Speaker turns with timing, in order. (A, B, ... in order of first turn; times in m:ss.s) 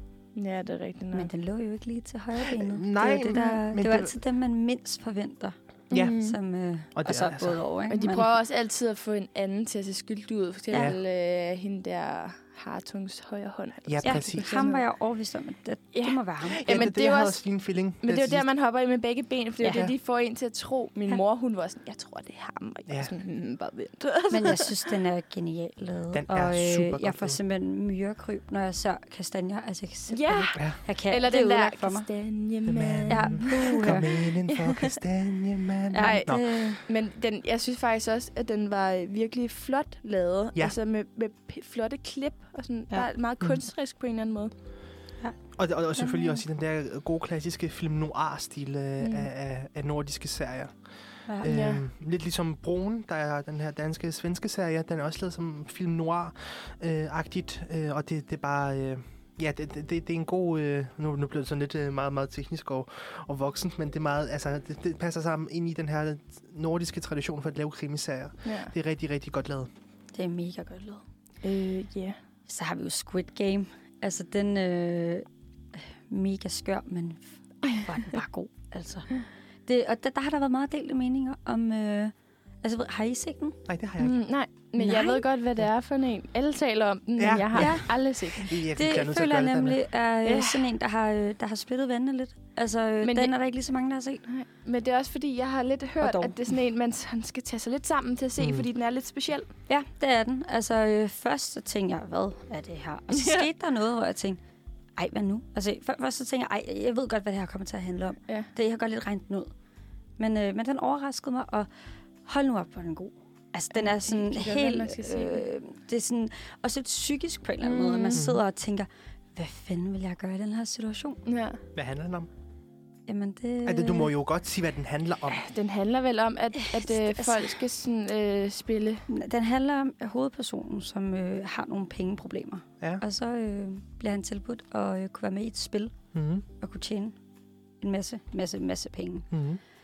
0:00.4-0:01.3 A
0:01.1-0:08.3 B
0:02.4-0:04.1 C
0:05.9-0:06.4 A
0:05.9-0:06.2 C
0:07.0-0:07.6 C
0:07.9-0:14.8 A
0:10.7-0:11.0 C
0:13.9-0:14.6 C
0:14.0-0:16.7 B
0:15.9-0:17.4 A
0:16.5-0:18.5 C
0:18.0-0:24.7 A
0:19.6-0:19.9 B
0:24.3-0:32.1 B
0:26.1-0:27.4 C
0:30.1-0:35.0 A
0:32.7-0:36.5 C
0:33.1-0:34.2 B
0:35.9-0:36.8 B
0:36.0-0:44.5 A
0:45.6-0:50.8 C
0:49.0-0:49.3 A
0:51.4-1:09.7 C
0:51.4-0:51.8 A
1:08.4-1:08.7 A
1:10.1-1:11.0 B
1:11.4-1:12.2 A
1:12.5-1:23.6 B
1:23.7-1:24.2 C
1:24.0-1:28.5 A
1:24.8-1:25.2 B
1:27.2-1:29.8 C
1:27.6-1:34.2 B
1:30.2-1:30.6 A
1:33.0-1:33.3 A
1:34.2-1:39.5 A
1:36.0-1:36.3 B
1:39.7-1:44.4 B
1:43.1-1:43.4 A
1:45.0-1:49.5 B
1:50.2-1:51.7 B
1:52.2-2:01.2 B
1:53.7-1:55.5 A
1:57.6-1:58.2 A
1:58.1-1:58.4 C
2:01.2-2:01.6 A
2:01.7-2:02.3 C
2:03.1-2:04.1 B
2:03.6-2:05.4 C
2:05.3-2:09.0 A
2:06.6-2:07.6 B
2:09.1-2:15.9 B
2:16.1-2:16.4 C
2:16.6-2:17.1 B
2:17.8-2:19.3 B
2:19.3-2:19.6 C